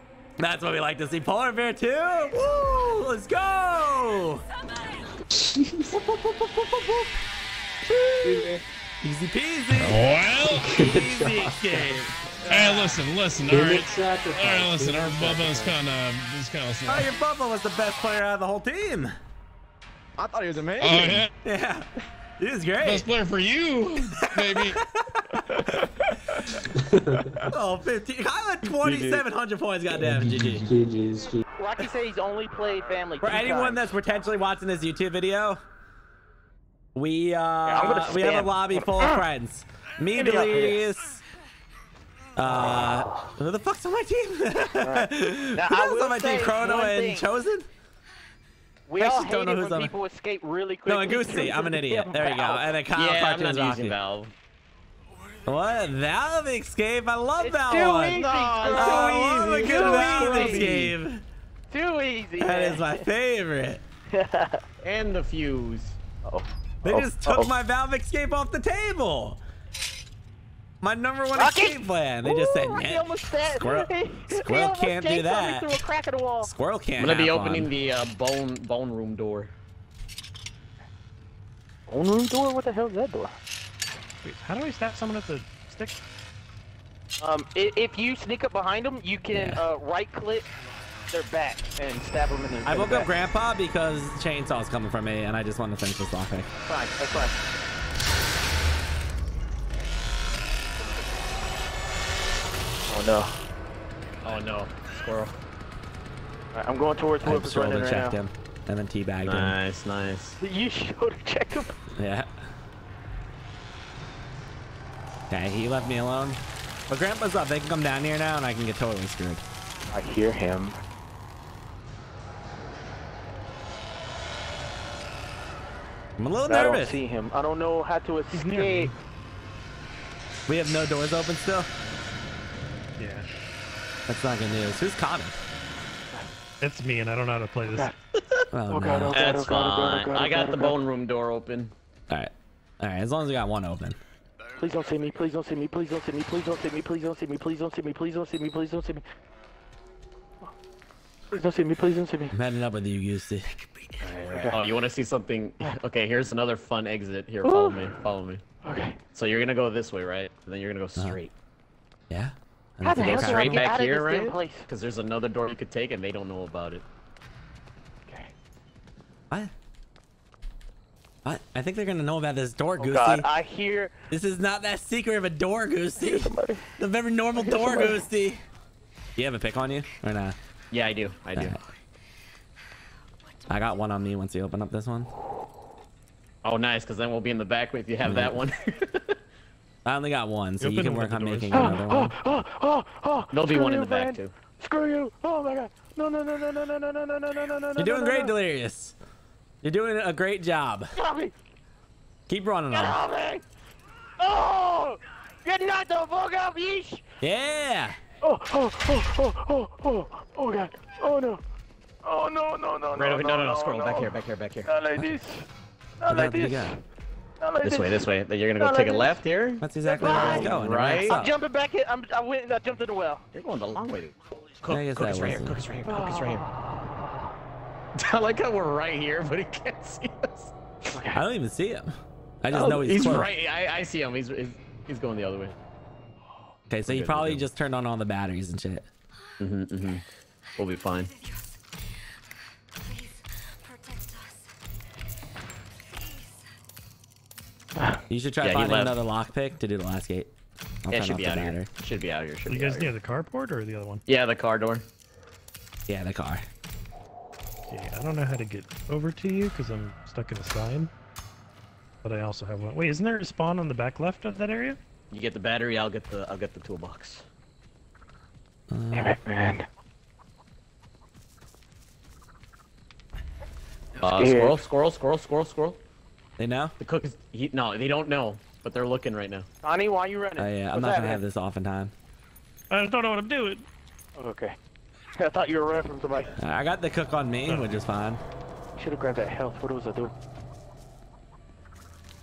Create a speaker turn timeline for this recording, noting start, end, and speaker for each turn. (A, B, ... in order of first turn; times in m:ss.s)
0:00.4-0:04.4 A
0:05.3-0:06.2 B
0:06.4-0:07.1 A
0:08.2-0:08.6 B
0:09.0-0:12.1 A
0:09.8-0:10.7 C
0:10.5-0:12.5 B
0:12.5-0:17.1 C
0:13.5-0:15.8 B
0:16.9-0:19.1 A
0:20.2-0:21.3 D
0:20.8-0:21.3 C
0:21.4-0:21.8 A
0:22.4-0:23.1 A
0:22.8-0:24.8 C
0:24.2-0:26.5 A
0:26.9-0:27.5 B
0:27.5-0:30.7 A
0:28.8-0:29.2 D
0:29.9-0:31.4 B
0:31.6-0:34.0 E
0:33.2-0:35.6 A
0:36.9-0:41.2 A
0:37.6-0:39.2 E
0:40.2-0:40.8 E
0:42.4-0:47.7 A
0:44.8-0:47.2 E
0:48.9-0:52.7 E
0:49.0-0:49.9 A
0:50.9-0:54.0 A
0:52.9-0:54.3 F
0:55.4-0:58.2 A
0:57.4-1:00.7 E
0:58.1-1:00.9 D
0:58.7-1:01.2 A
1:01.7-1:03.0 E
1:02.4-1:03.8 A
1:04.1-1:04.6 E
1:04.8-1:06.0 F
1:06.2-1:07.5 E
1:06.8-1:09.4 A
1:10.8-1:15.7 A
1:11.4-1:16.5 E
1:16.4-1:17.7 A
1:17.0-1:19.5 F
1:21.9-1:23.3 E
1:24.2-1:26.0 G
1:27.2-1:30.5 E
1:29.3-1:29.6 A
1:31.1-1:33.1 E
1:32.6-1:36.5 A
1:36.6-1:37.4 E
1:42.9-1:43.3 E
1:44.2-1:45.4 F
1:46.5-1:48.2 E
1:47.2-1:49.6 A
1:49.2-1:50.4 F
1:50.4-1:51.8 E
1:51.9-1:52.3 A
1:55.3-1:59.4 A
1:59.9-2:00.8 E
2:06.2-2:07.0 A
2:06.5-2:08.9 E
2:08.3-2:08.9 G
2:10.5-2:11.7 A
2:13.0-2:13.3 G
2:14.1-2:15.4 A
2:16.6-2:17.9 G
2:18.5-2:19.2 A
2:18.7-2:20.8 E
2:19.1-2:21.7 F
2:22.1-2:24.0 A
2:24.6-2:29.0 E
2:31.3-2:32.3 E
2:32.3-2:33.5 A
2:34.0-2:38.4 F
2:34.3-2:34.6 E
2:37.4-2:37.9 E
2:38.6-2:39.0 E
2:39.1-2:41.3 F
2:42.1-2:43.7 A
2:42.8-2:44.6 E
2:43.0-2:46.8 F
2:51.2-2:53.3 A
2:52.8-2:53.9 E
2:54.1-2:58.4 A
2:56.0-2:56.7 E
2:57.4-2:58.0 E
2:59.2-3:00.4 A
3:00.7-3:01.6 F
3:03.5-3:05.1 A
3:06.4-3:09.2 F
3:08.0-3:08.4 A
3:09.8-3:12.1 A
3:10.6-3:11.8 G
3:11.5-3:18.3 E
3:13.3-3:14.3 F
3:17.8-3:18.9 A
3:19.6-3:20.9 A
3:21.0-3:21.4 E
3:22.3-3:23.0 A
3:22.7-3:23.4 E
3:24.2-3:27.0 E
3:27.2-3:28.0 A
3:28.2-3:31.4 E
3:32.0-3:34.1 E
3:32.9-3:34.7 F
3:34.6-3:35.5 E
3:36.0-3:36.8 E
3:36.1-3:36.8 A
3:37.4-3:38.0 E
3:37.6-3:41.2 F
3:38.6-3:39.1 E
3:39.6-3:41.3 A
3:39.9-3:43.2 E
3:43.3-3:46.5 F
3:44.7-3:45.6 A
3:45.9-3:47.3 E
3:47.9-3:50.5 F
3:50.9-3:51.2 E
3:51.1-3:53.3 A
3:52.5-3:55.5 F
3:56.7-3:58.9 A
3:56.9-3:57.5 F
3:59.4-4:00.0 F
4:00.6-4:01.1 F
4:07.8-4:08.0 E
4:08.1-4:10.3 A
4:08.4-4:09.0 F
4:10.8-4:11.7 A
4:10.9-4:12.9 F
4:12.5-4:14.0 G
4:14.1-4:14.9 F
4:15.9-4:16.5 A
4:17.7-4:20.9 G
4:22.0-4:24.8 G
4:25.1-4:27.2 F
4:28.7-4:29.2 A
4:28.9-4:29.6 E
4:34.0-4:35.8 F
4:34.0-4:34.6 E
4:36.4-4:36.8 A
4:36.8-4:39.5 F
4:39.6-4:41.2 E
4:40.4-4:41.9 A
4:42.7-4:43.6 G
4:44.2-4:44.6 E
4:45.2-4:46.3 E
4:46.4-4:48.2 A
4:48.8-4:50.1 E